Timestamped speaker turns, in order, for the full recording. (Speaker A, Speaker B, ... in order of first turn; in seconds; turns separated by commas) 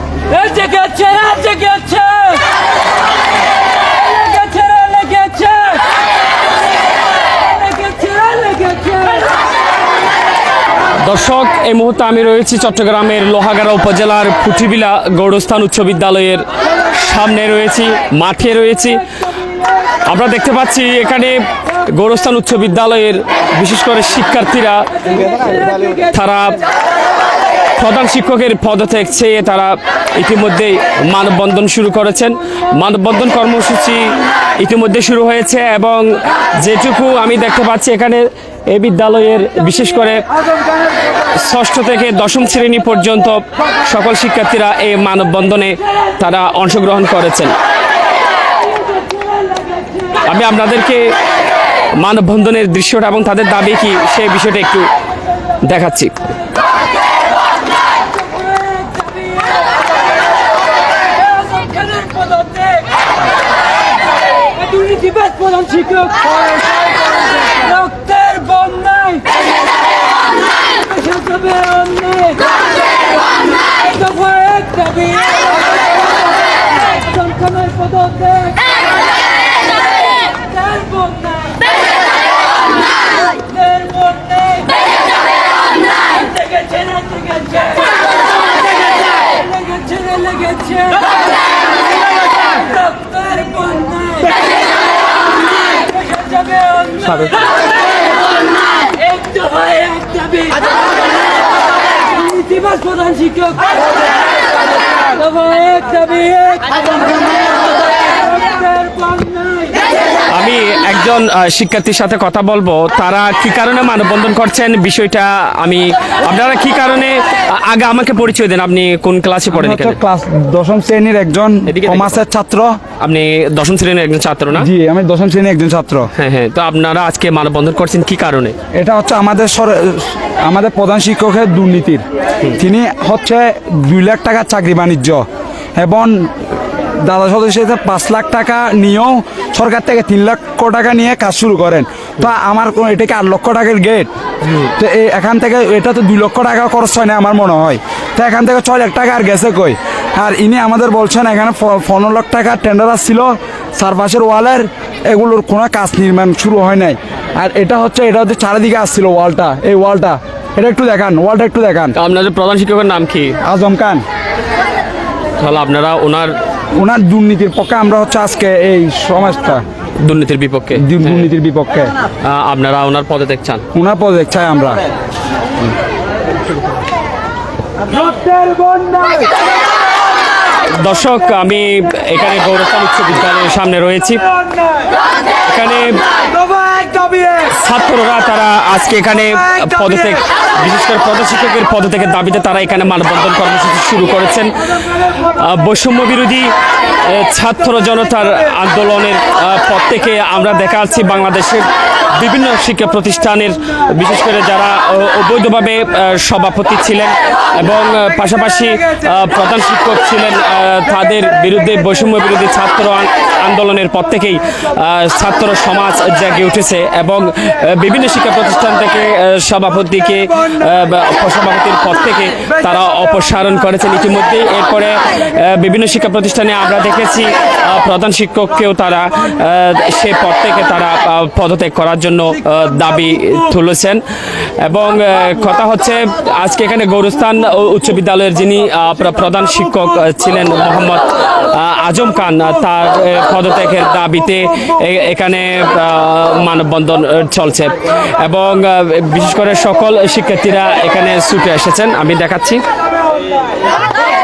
Speaker A: 0.4-2.2, Speaker A: 4.3-5.7, Speaker A: 7.9-9.1, Speaker B: 11.0-19.0, Speaker B: 20.1-21.4, Speaker B: 21.9-26.6, Speaker B: 27.8-40.2, Speaker B: 41.4-47.5, Speaker B: 50.2-51.0, Speaker B: 52.0-54.9, Speaker B: 55.6-56.1, Speaker A: 58.9-59.3, Speaker A: 61.4-62.8, Speaker A: 64.7-66.1, Speaker C: 66.4-67.8, Speaker A: 67.9-69.2, Speaker A: 71.0-72.3, Speaker A: 74.2-75.2, Speaker A: 90.4-90.8, Speaker A: 93.2-94.3, Speaker B: 97.0-97.3, Speaker A: 99.3-100.5, Speaker A: 102.3-103.5, Speaker A: 105.5-106.5, Speaker B: 110.3-120.0, Speaker C: 119.5-122.8, Speaker B: 121.7-122.2, Speaker B: 123.0-124.7, Speaker C: 124.5-126.1, Speaker B: 126.2-128.6, Speaker C: 128.8-132.0, Speaker C: 132.6-135.2, Speaker C: 135.8-136.3, Speaker C: 137.1-144.1, Speaker B: 144.4-144.7, Speaker C: 144.8-161.9, Speaker B: 161.9-163.4, Speaker C: 163.4-164.0, Speaker B: 165.4-166.3, Speaker C: 166.8-169.6, Speaker B: 170.0-171.3, Speaker C: 170.8-171.9, Speaker B: 172.3-173.6, Speaker C: 173.7-174.8, Speaker C: 177.9-179.3, Speaker B: 180.8-184.2, Speaker C: 184.3-184.9, Speaker B: 185.5-185.9, Speaker C: 186.3-187.5, Speaker B: 187.6-194.5, Speaker C: 189.4-190.1, Speaker B: 195.2-196.5, Speaker B: 197.1-234.0, Speaker B: 234.6-252.6, Speaker C: 253.1-253.4